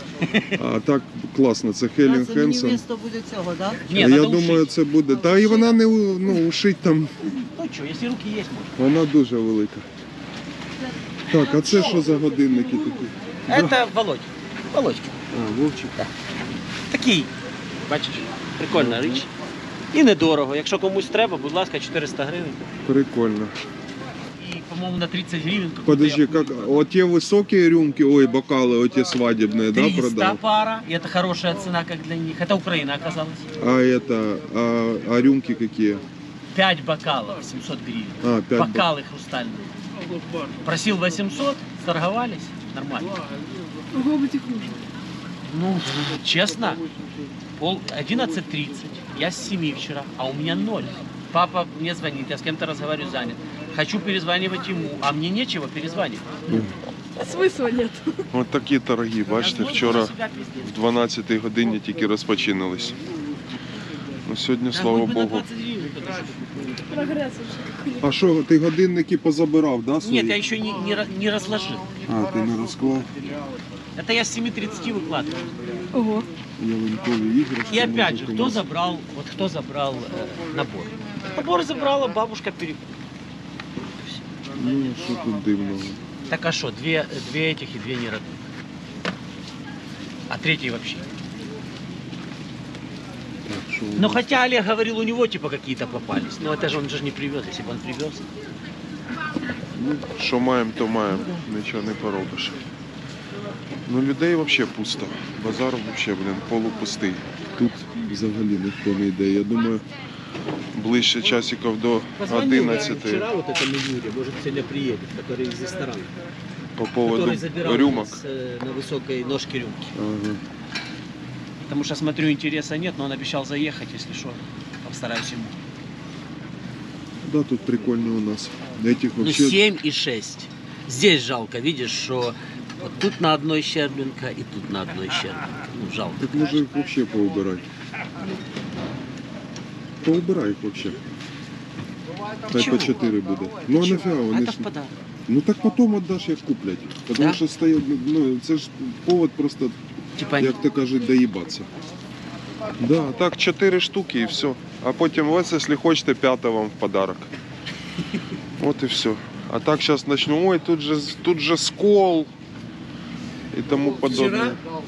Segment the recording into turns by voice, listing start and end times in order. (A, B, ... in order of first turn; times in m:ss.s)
0:00.2-0:00.6 A
0:00.5-0:02.8 B
0:02.0-0:03.9 C
0:03.8-0:04.8 A
0:03.9-0:07.3 B
0:07.5-0:08.8 A
0:08.8-0:09.8 B
0:11.3-0:13.8 B
0:11.4-0:12.0 A
0:11.7-0:12.0 C
0:13.5-0:15.2 A
0:15.3-0:16.1 B
0:16.9-0:17.3 A
0:17.8-0:19.3 A
0:18.7-0:19.2 B
0:19.9-0:22.6 A
0:22.8-0:23.5 B
0:24.4-0:26.8 A
0:25.8-0:30.4 B
0:29.7-0:33.5 A
0:33.6-0:36.0 B
0:36.5-0:39.7 A
0:38.2-0:38.9 B
0:40.6-0:43.2 A
0:43.9-0:44.8 D
0:45.4-0:46.8 A
0:47.6-0:56.2 A
0:56.5-0:56.7 B
0:57.2-0:58.2 D
0:58.3-1:03.0 B
0:59.3-1:00.7 A
1:04.2-1:05.4 B
1:04.7-1:06.8 A
1:06.9-1:08.0 D
1:08.0-1:10.4 B
1:10.0-1:11.9 A
1:12.0-1:13.1 B
1:13.9-1:15.8 A
1:15.9-1:16.3 D
1:16.6-1:18.6 B
1:17.7-1:22.9 A
1:24.0-1:24.3 A
1:24.5-1:26.0 B
1:26.3-1:28.4 A
1:30.3-1:31.1 A
1:33.4-1:34.2 B
1:34.0-1:38.2 A
1:39.7-1:42.6 B
1:43.8-1:49.9 B
1:50.7-1:53.3 B
1:52.2-1:56.1 A
1:56.8-1:58.2 B
1:57.0-1:59.9 A
1:59.9-2:00.4 B
2:01.7-2:05.6 A
2:07.2-2:09.6 B
2:09.2-2:16.6 A
2:16.2-2:17.6 B
2:20.0-2:21.0 B
2:22.5-2:24.7 B
2:22.5-2:23.0 A
2:23.7-2:24.9 A
2:25.3-2:29.8 B
2:30.2-2:30.6 A
2:30.3-2:31.8 B
2:32.8-2:37.3 B
2:38.6-2:42.3 B
2:43.5-2:44.6 B
2:44.0-2:44.6 A